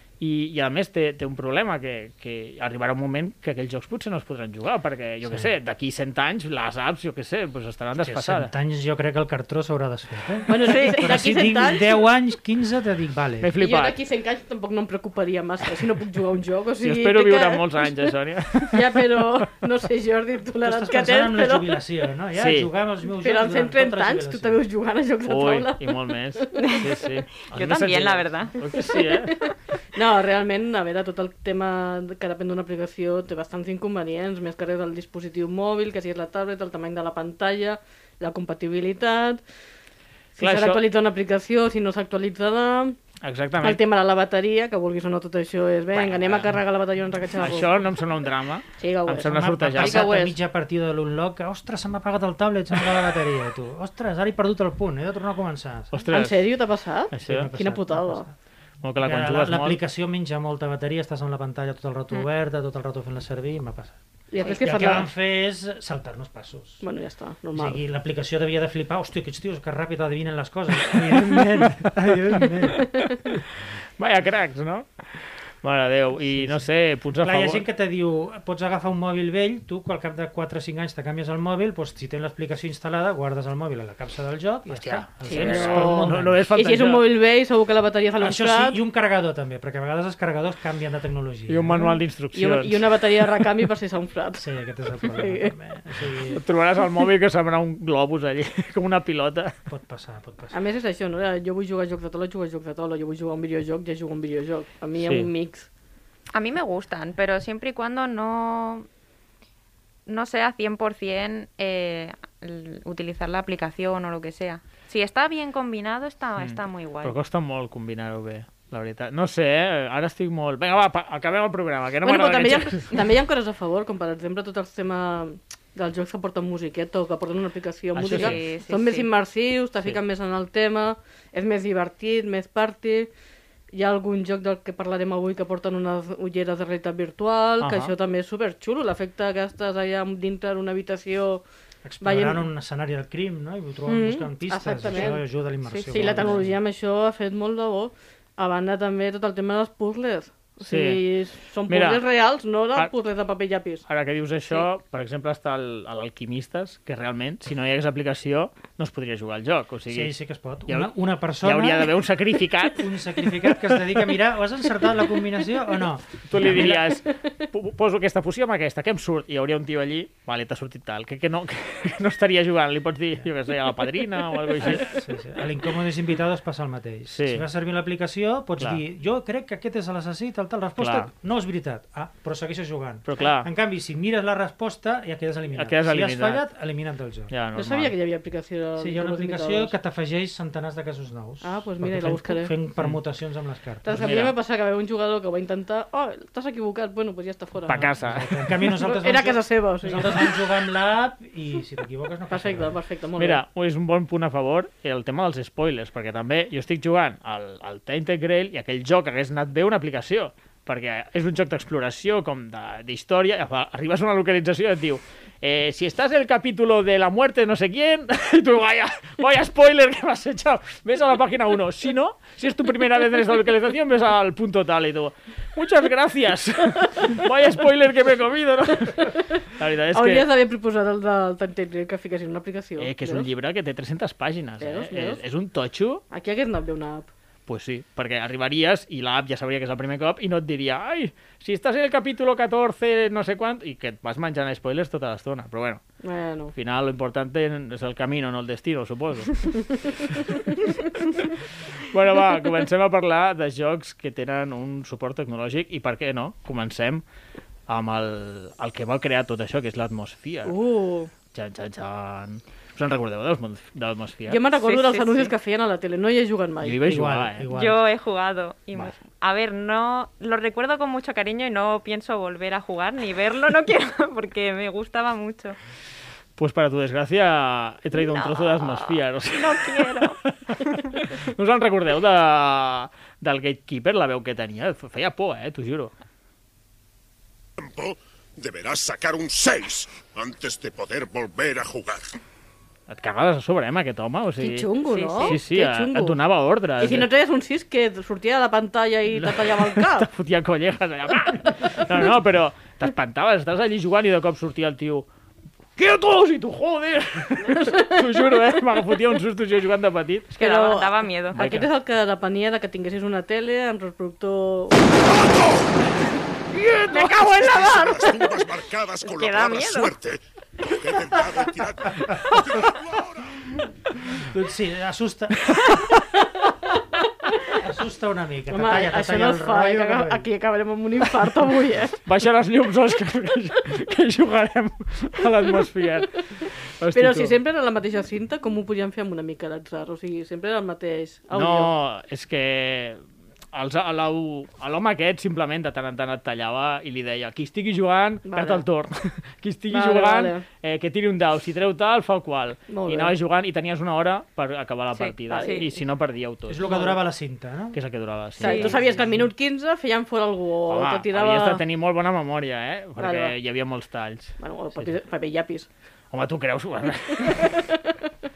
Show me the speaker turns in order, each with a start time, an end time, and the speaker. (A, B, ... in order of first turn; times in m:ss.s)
0:00.2-0:08.5 A
0:05.2-0:05.5 B
0:08.0-0:13.5 B
0:10.5-0:12.1 C
0:13.4-0:14.0 A
0:13.6-0:17.9 C
0:16.8-0:19.5 A
0:18.7-0:21.8 C
0:20.6-0:24.6 B
0:22.4-0:22.7 A
0:23.2-0:27.1 C
0:25.3-0:29.4 A
0:27.5-0:28.6 D
0:28.9-0:39.4 C
0:40.4-0:43.0 C
0:40.4-0:40.8 A
0:43.2-0:43.8 A
0:43.6-0:47.8 C
0:45.9-0:46.6 A
0:47.4-0:50.1 A
0:48.8-0:50.4 C
0:49.3-0:56.1 B
0:55.9-0:56.5 A
0:56.1-0:58.3 C
0:57.1-0:57.5 A
0:57.2-0:58.4 B
0:58.8-0:59.8 A
0:59.0-1:04.0 B
1:04.3-1:05.1 C
1:04.6-1:06.8 B
1:06.8-1:07.8 C
1:07.5-1:13.2 B
1:14.0-1:17.6 A
1:16.2-1:16.6 B
1:17.2-1:26.4 B
1:24.7-1:27.1 A
1:25.2-1:28.8 C
1:28.2-1:32.0 B
1:31.5-1:33.5 A
1:32.3-1:34.4 C
1:34.4-1:36.4 B
1:35.0-1:35.5 C
1:36.4-1:39.6 A
1:39.7-1:40.6 B
1:40.5-1:45.7 C
1:45.0-1:45.3 A
1:46.3-1:48.9 D
1:50.1-1:57.2 D
1:56.4-2:02.9 A
2:02.0-2:13.1 C
2:08.0-2:08.4 A
2:08.1-2:09.1 D
2:13.7-2:21.4 C
2:17.6-2:17.9 A
2:21.8-2:26.5 B
2:22.0-2:22.5 C
2:23.9-2:25.2 C
2:25.6-2:26.2 D
2:25.9-2:33.8 C
2:30.7-2:31.0 A
2:31.7-2:32.0 A
2:33.9-2:40.1 A
2:39.9-2:42.0 B
2:40.7-2:43.9 A
2:42.7-2:47.0 B
2:46.3-2:55.0 A
2:54.6-3:07.3 B
2:57.1-2:57.4 A
3:00.8-3:01.1 A
3:03.1-3:03.5 A
3:05.6-3:06.4 A
3:07.3-3:07.9 A
3:07.6-3:09.7 C
3:08.8-3:14.0 B
3:11.4-3:12.5 C
3:13.8-3:17.9 C
3:13.9-3:14.4 A
3:17.7-3:18.4 A
3:18.0-3:22.8 B
3:18.6-3:20.4 C
3:22.3-3:23.4 C
3:23.2-3:50.3 A
3:49.9-3:53.3 C
3:52.8-3:56.0 A
3:54.6-3:55.2 C
3:56.1-3:57.1 C
3:57.5-4:05.8 A
4:06.0-4:06.5 C
4:06.6-4:17.0 A
4:17.7-4:20.6 A
4:20.4-4:21.1 C
4:21.3-4:24.4 A
4:24.3-4:26.8 C
4:24.6-4:25.3 D
4:26.6-4:27.5 A
4:26.8-4:27.8 B
4:27.5-4:35.6 D
4:36.4-4:45.9 A
4:37.9-4:41.0 D
4:47.6-4:52.2 E
4:52.9-4:54.7 A
4:54.4-4:56.2 C
4:54.9-4:55.4 D
4:55.2-4:57.1 A
4:56.8-5:00.1 C
4:59.2-5:05.1 A
5:05.8-5:10.4 A
5:07.5-5:08.4 C
5:10.4-5:11.4 D
5:10.4-5:15.0 C
5:11.3-5:11.7 A
5:16.5-5:17.8 A
5:16.9-5:23.4 E
5:17.6-5:18.0 D
5:19.0-5:19.9 D
5:24.2-5:25.7 B
5:25.5-5:25.8 A
5:27.5-5:30.3 B
5:28.5-5:32.0 C
5:32.0-5:37.4 A
5:36.9-5:41.7 C
5:41.3-5:56.6 A
5:48.3-5:48.6 C
5:49.7-5:50.4 C
5:52.7-5:53.1 C
5:54.9-5:55.7 D
5:55.3-5:55.7 C
5:56.5-5:57.8 B
5:56.6-5:57.0 C
5:57.7-5:59.2 A
5:58.4-6:01.6 C
5:58.4-5:58.8 D
6:00.7-6:04.9 A
6:03.0-6:03.3 C
6:04.4-6:05.7 C
6:06.1-6:07.6 A
6:07.2-6:07.9 C